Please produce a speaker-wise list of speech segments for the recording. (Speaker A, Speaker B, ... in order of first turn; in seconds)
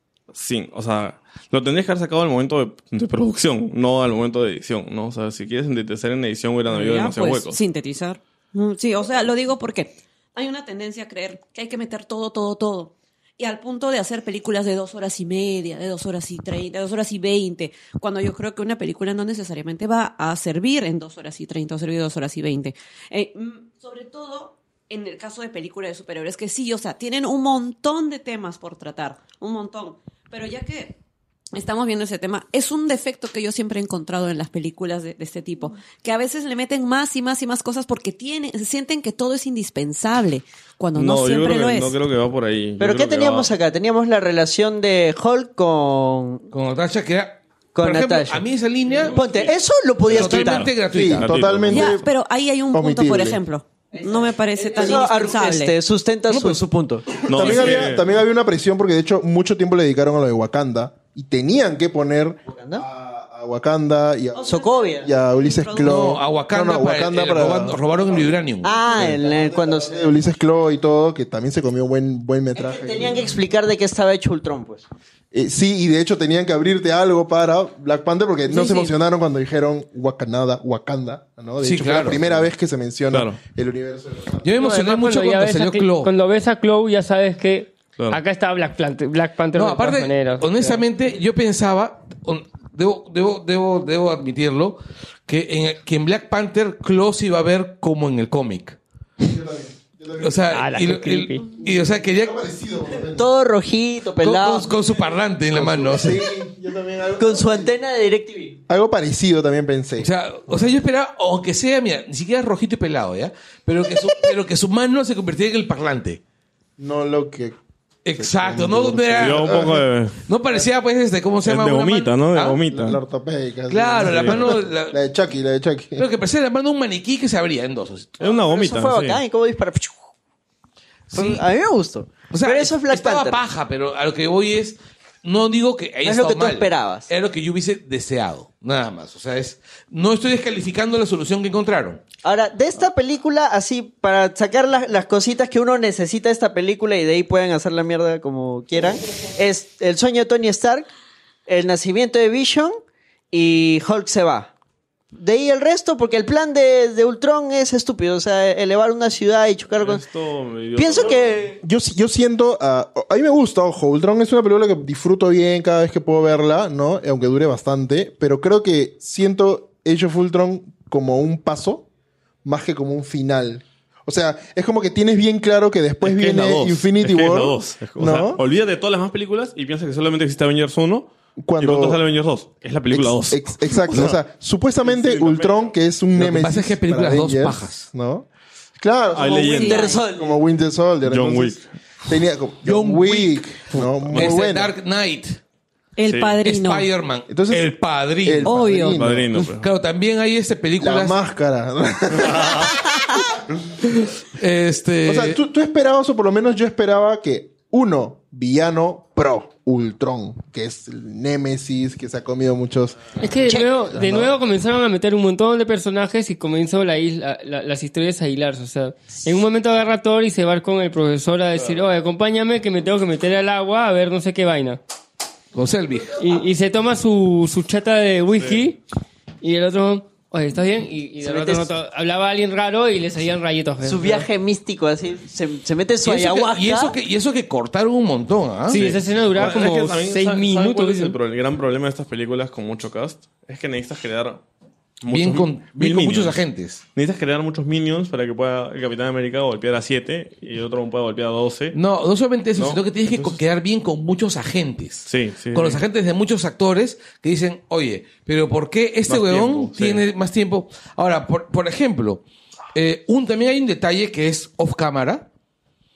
Speaker A: 0.3-7.6, 41.0-43.5, 50.1-52.0, 57.2-58.1, 83.1-83.4, 119.2-120.2, 121.4-123.0, 124.0-124.6, 128.2-129.2, 159.8-161.5, 176.0-184.2, 184.8-185.8, 189.1-189.9, 191.0-191.7, 196.1-196.4, 198.9-199.7, 221.6-221.9, 228.3-228.7, 238.7-244.4, 245.0-251.8, 252.6-253.4, 255.1-255.8, 259.1-260.1
Speaker B: 6.7-31.0, 31.5-42.0, 51.7-55.7, 64.4-65.9, 189.4-190.1, 196.0-196.9, 198.4-199.5
Speaker C: 42.8-46.5, 47.8-48.5, 49.1-50.7, 54.0-57.3, 62.5-62.8, 64.4-65.1, 68.6-70.2, 72.6-74.9, 103.1-104.9, 107.2-108.6, 128.2-130.1, 131.1-133.4, 136.0-137.1, 142.2-150.9, 151.5-152.7, 153.3-154.5, 155.1-160.0, 160.8-161.6, 189.2-190.4, 231.2-231.7, 233.8-237.0
Speaker D: 46.5-49.4, 50.1-51.3, 56.3-56.6, 65.8-68.8, 78.5-78.9, 81.6-82.3, 84.4-86.1, 89.5-98.8, 100.2-102.4, 104.2-106.3, 110.0-116.2, 118.0-122.6, 123.7-125.0, 126.0-128.2, 131.1-131.4, 132.3-142.0, 186.2-187.9, 192.6-195.4, 196.4-198.5, 199.6-201.2, 203.9-205.4, 225.5-226.2, 236.0-238.8, 245.1-246.8, 251.7-262.2, 262.7-265.3
Speaker E: 50.9-52.1, 52.7-53.4, 57.3-68.2, 68.9-73.2, 75.3-84.5, 99.2-100.7, 101.6-103.3, 105.5-107.8, 108.7-110.1, 116.8-117.6, 118.2-119.8, 122.7-126.1, 161.6-171.9, 172.4-178.4, 181.4-182.0, 182.9-188.3, 188.8-189.6, 190.1-194.7, 197.3-199.3, 200.8-203.3, 205.1-214.3
Speaker F: 84.6-90.8, 100.5-101.5, 213.2-224.8, 226.1-228.8, 229.4-234.3, 238.7-241.2